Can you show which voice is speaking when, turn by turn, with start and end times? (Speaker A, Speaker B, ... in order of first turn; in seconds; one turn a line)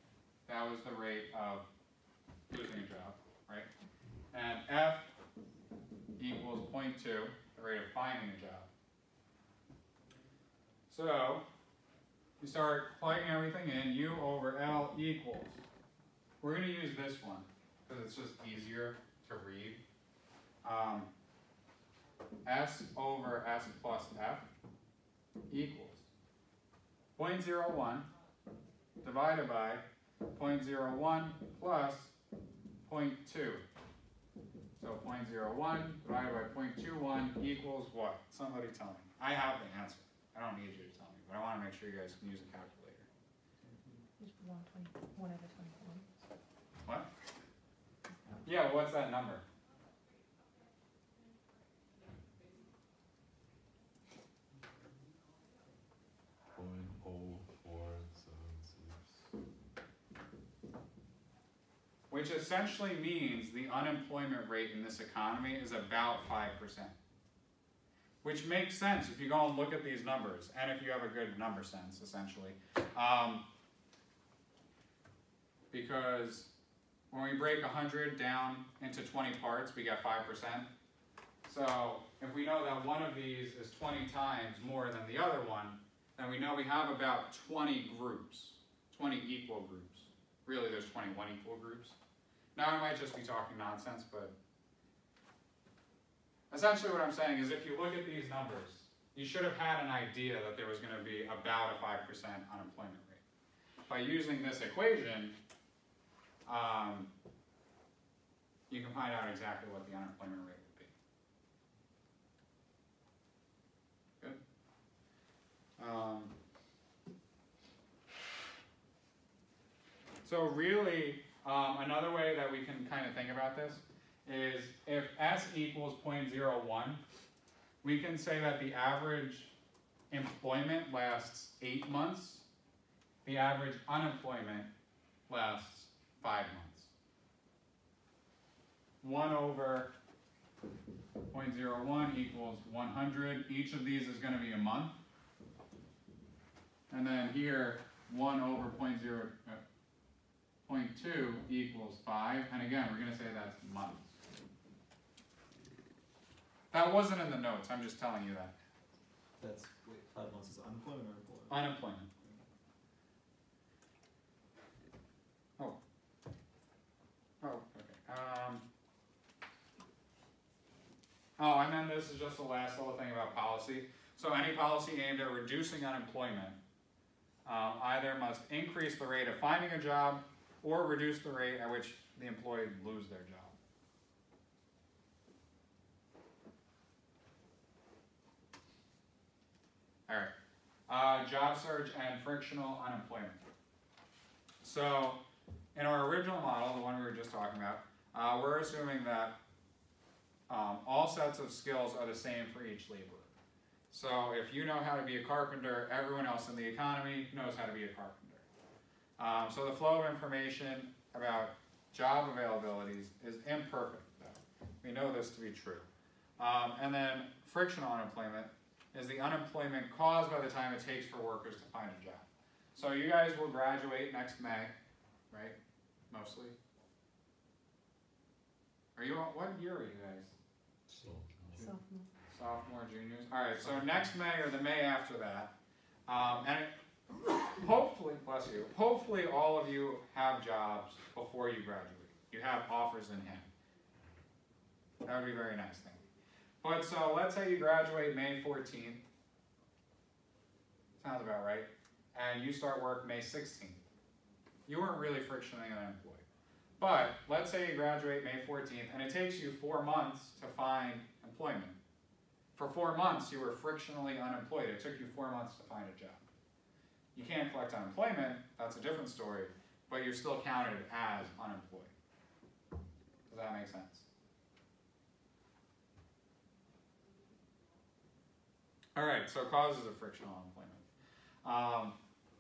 Speaker A: 0.5-1.7
Speaker A: 2.5-3.7
Speaker A: 4.3-5.1
Speaker A: 6.2-8.7
Speaker A: 10.9-11.4
Speaker A: 12.4-15.6
Speaker A: 16.4-19.8
Speaker A: 20.6-21.1
Speaker A: 22.4-24.5
Speaker A: 25.5-26.1
Speaker A: 27.2-28.1
Speaker A: 29.0-32.1
Speaker A: 32.9-33.6
Speaker A: 34.8-43.1
Speaker B: 43.6-44.0
Speaker C: 44.2-46.1
Speaker A: 48.4-49.4
Speaker D: 56.5-59.3
Speaker A: 62.1-66.9
Speaker A: 68.2-73.5
Speaker A: 75.7-76.5
Speaker A: 77.1-80.7
Speaker A: 81.5-92.0
Speaker A: 92.6-94.3
Speaker A: 96.5-103.2
Speaker A: 103.9-105.4
Speaker A: 106.5-107.1
Speaker A: 108.7-110.9
Speaker A: 115.8-116.3
Speaker A: 120.2-127.0
Speaker A: 127.8-129.6
Speaker A: 130.1-132.5
Speaker A: 133.2-134.7
Speaker A: 135.3-136.9
Speaker A: 139.0-139.9
Speaker A: 141.3-145.0
Speaker A: 146.9-149.6
Speaker A: 150.7-154.2
Speaker A: 156.7-158.5
Speaker B: 159.4-161.7
Speaker A: 161.5-162.1
Speaker B: 162.2-162.5
Speaker A: 167.4-168.7
Speaker A: 171.4-176.6
Speaker A: 177.4-183.5
Speaker A: 190.1-190.3
Speaker A: 190.9-193.4
Speaker A: 194.6-195.2
Speaker A: 195.8-199.4
Speaker A: 200.5-203.3
Speaker A: 203.9-208.4
Speaker A: 209.2-215.8
Speaker A: 216.4-224.7
Speaker A: 225.3-225.6
Speaker A: 226.1-226.6
Speaker A: 229.0-230.3
Speaker D: 230.9-231.7
Speaker C: 231.6-232.1
Speaker A: 232.3-235.5
Speaker A: 236.1-243.5
Speaker A: 245.1-246.0
Speaker A: 246.6-249.0
Speaker A: 251.0-253.8
Speaker A: 254.7-256.2
Speaker A: 256.8-261.8
Speaker A: 262.6-266.2
Speaker A: 267.1-271.9
Speaker A: 273.3-274.1
Speaker A: 279.0-280.9
Speaker A: 281.4-282.0